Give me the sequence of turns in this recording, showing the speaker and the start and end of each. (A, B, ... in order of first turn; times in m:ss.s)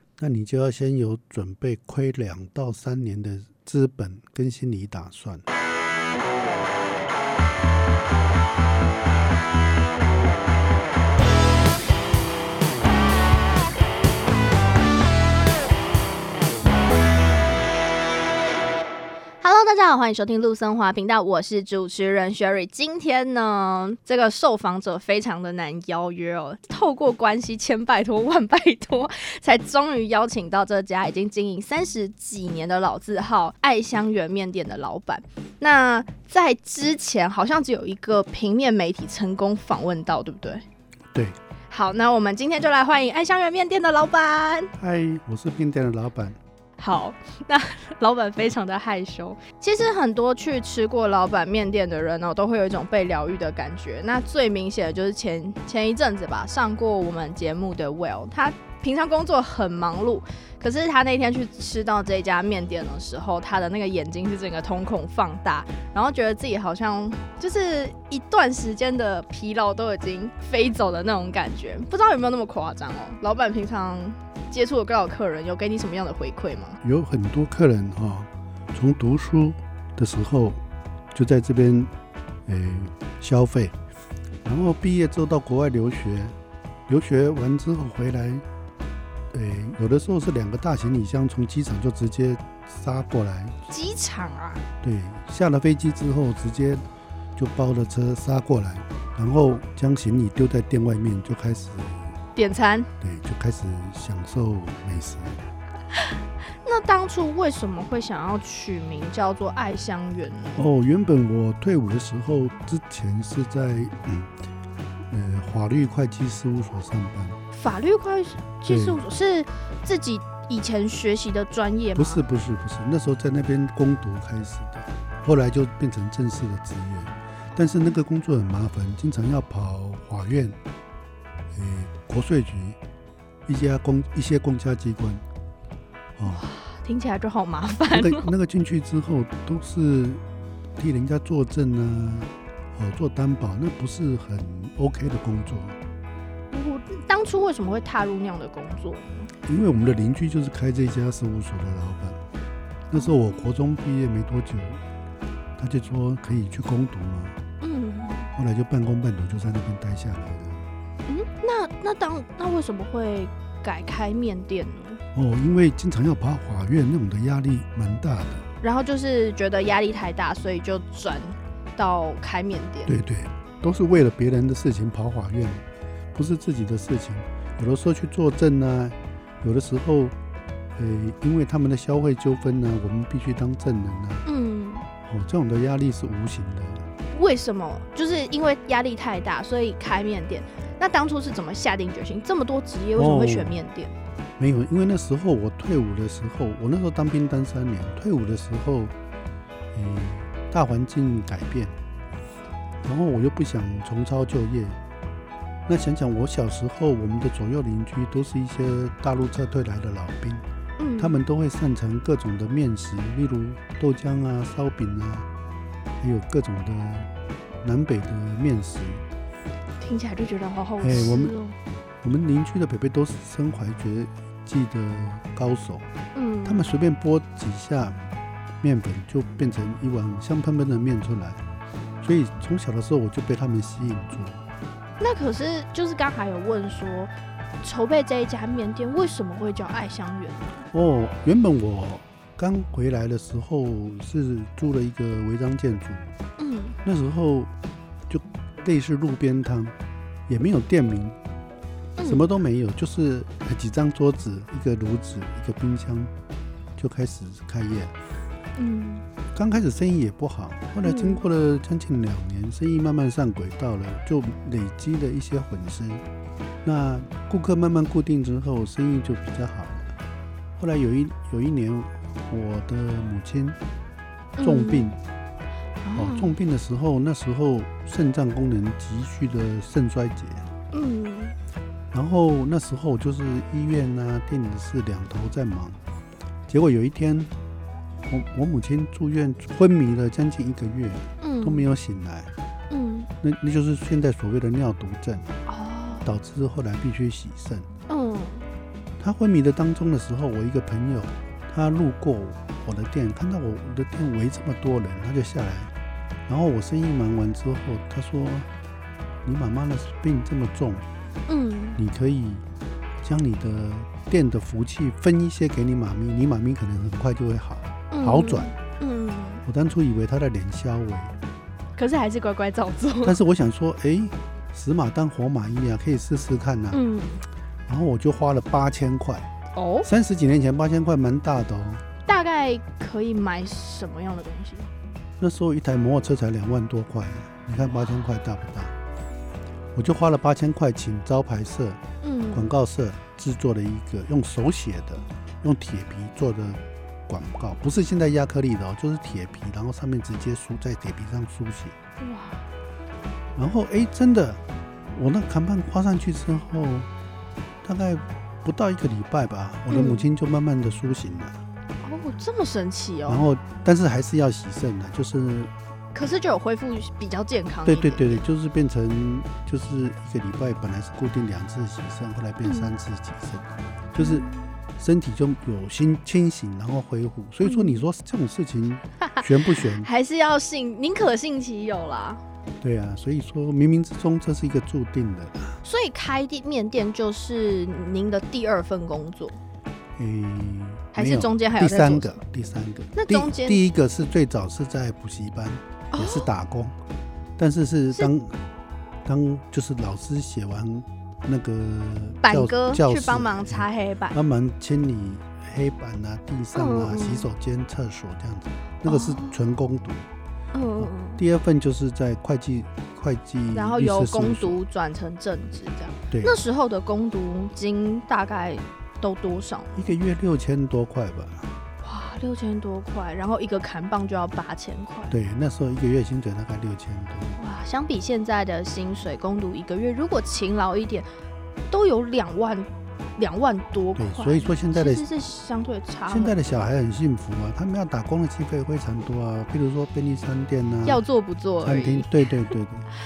0:00.2-0:05.4 A
0:19.4-0:40.6 B
0:41.7-0:44.7 B
0:44.8-0:46.4 A
0:46.8-1:16.8 B
1:16.8-1:20.6 A
1:21.1-1:21.9 A
1:22.5-1:23.8 A
1:24.4-1:26.4 A
1:26.9-1:28.4 A
1:29.3-1:33.6 A
1:33.7-1:34.6 B
1:34.8-1:36.8 A
1:37.4-1:42.2 A
1:42.4-1:42.9 B
1:43.0-1:45.4 A
1:46.0-1:50.7 B
1:50.6-1:54.3 A
1:55.1-1:57.4 A
1:57.5-2:02.2 B
1:58.7-1:59.0 A
2:02.0-2:10.6 A
2:11.5-2:12.8 A
2:13.5-2:15.2 A
2:16.2-2:16.4 A
2:16.2-2:18.3 B
2:17.9-2:20.2 A
2:20.8-2:25.8 A
2:26.5-2:29.3 B
2:29.4-2:32.2 A
2:32.9-2:34.8 A
2:33.0-2:33.4 B
2:35.6-2:37.4 A
2:37.6-2:38.3 B
2:38.4-2:40.7 A
2:41.1-2:45.0 B
2:45.1-2:48.4 A
2:48.6-2:53.0 B
2:52.9-3:00.2 A
3:00.8-3:04.2 A
3:04.3-3:04.9 B
3:05.0-3:06.9 A
3:07.1-3:13.9 B
3:13.0-3:13.6 A
3:14.4-3:18.9 A
3:19.7-3:21.8 A
3:22.8-3:24.8 A
3:25.7-3:30.4 A
3:30.8-3:31.2 B
3:31.0-3:35.3 A
3:36.0-3:37.1 A
3:37.6-3:39.0 A
3:39.8-3:41.6 B
3:40.8-3:41.4 A
3:42.0-3:45.8 A
3:46.1-3:46.7 B
3:46.4-3:48.0 A
3:48.6-3:51.4 A
3:52.0-3:54.4 A
3:55.0-3:57.1 B
3:57.6-4:00.6 B
4:00.7-4:06.1 A
4:06.4-4:06.8 B
4:06.8-4:07.5 A
4:08.1-4:09.8 A
4:10.3-4:11.2 A
4:12.0-4:12.3 B
4:12.0-4:16.1 A
4:16.8-4:17.9 A
4:18.6-4:19.0 B
4:19.3-4:26.0 A
4:20.8-4:21.2 B
4:26.6-4:29.9 A
4:30.6-4:33.6 A
4:34.4-4:34.9 B
4:34.4-4:35.0 A
4:35.8-4:36.4 B
4:35.9-4:40.5 A
4:40.7-4:41.4 B
4:41.9-4:45.8 A
4:46.5-4:47.3 A
4:48.1-4:52.3 A
4:51.2-4:51.7 B
4:52.7-4:53.1 B
4:53.2-4:55.3 A
4:55.5-4:56.1 B
4:56.0-4:57.7 A
4:57.9-4:58.4 B
4:59.0-5:05.7 A
5:06.3-5:08.5 A
5:09.2-5:10.8 A
5:11.3-5:11.8 B
5:11.8-5:12.4 A
5:13.0-5:18.5 A
5:17.9-5:19.4 B
5:19.4-5:21.1 A
5:21.8-5:23.2 B
5:23.0-5:26.8 A
5:26.7-5:27.3 B
5:27.7-5:29.3 A
5:29.5-5:29.9 B
5:29.8-5:31.8 A
5:32.1-5:34.7 B
5:35.2-5:38.8 A
5:39.8-5:41.8 A
5:42.0-5:42.5 B
5:42.3-5:51.8 A
5:52.0-5:52.4 B
5:53.4-5:54.4 A
5:54.9-5:56.9 A
5:57.6-6:01.4 A
5:59.7-6:00.1 B
6:01.8-6:03.3 B
6:03.1-6:05.5 A
6:05.9-6:08.2 B
6:07.6-6:14.3 A
6:12.4-6:12.7 B
6:14.0-6:14.6 B
6:14.8-6:19.9 A
6:17.4-6:17.8 B
6:19.7-6:22.2 B
6:22.6-6:25.6 A
6:25.6-6:29.4 B
6:30.0-6:36.8 A
6:30.9-6:32.2 B
6:32.9-6:33.6 B
6:35.9-6:36.3 B
6:37.4-6:38.4 A
6:39.0-6:50.1 A
6:42.2-6:44.2 B
6:46.5-6:47.3 B
6:48.9-6:49.4 B
6:50.5-6:51.2 B
6:50.8-6:54.6 A
6:53.5-6:59.8 B
6:56.1-6:56.4 A
6:59.8-7:01.5 A
7:01.8-7:05.2 B
7:05.1-7:07.4 A
7:07.4-7:11.1 B
7:11.7-7:16.4 B
7:14.0-7:15.1 A
7:16.1-7:21.0 A
7:20.8-7:22.2 B
7:21.6-7:22.9 A